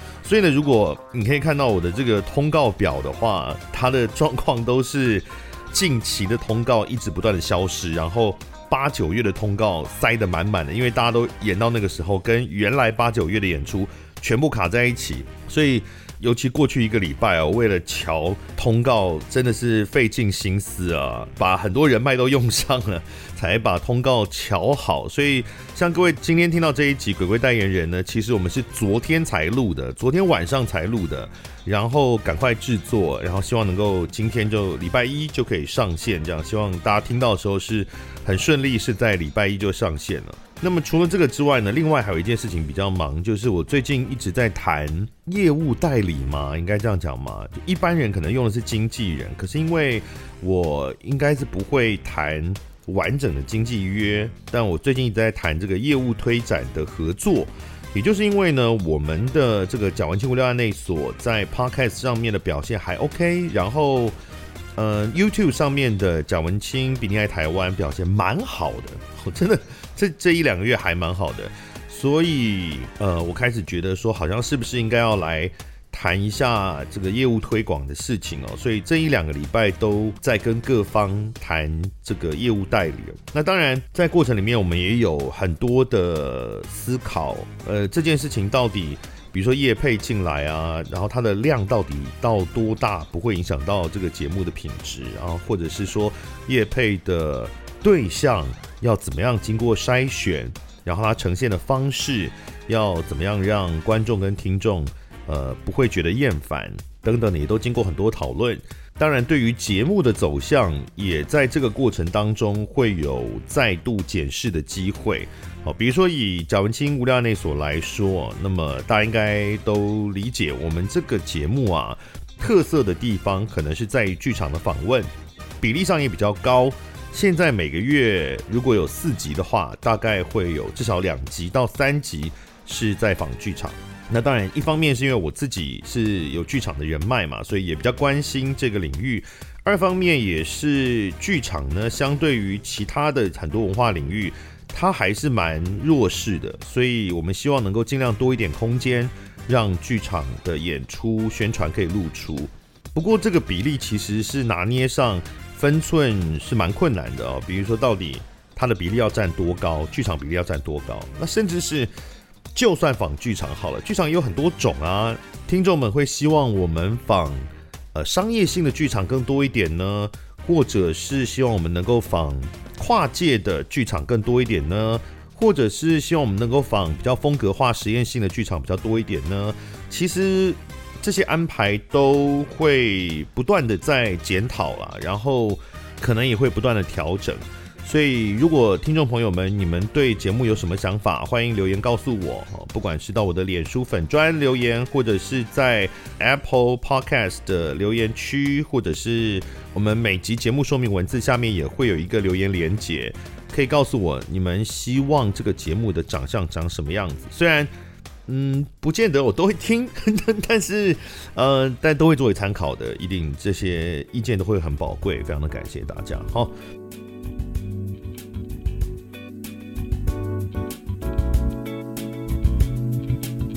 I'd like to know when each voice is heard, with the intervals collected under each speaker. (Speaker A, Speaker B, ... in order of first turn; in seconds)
Speaker A: 0.2-64.1, 64.8-161.9, 162.5-167.4, 167.9-207.7, 208.3-216.5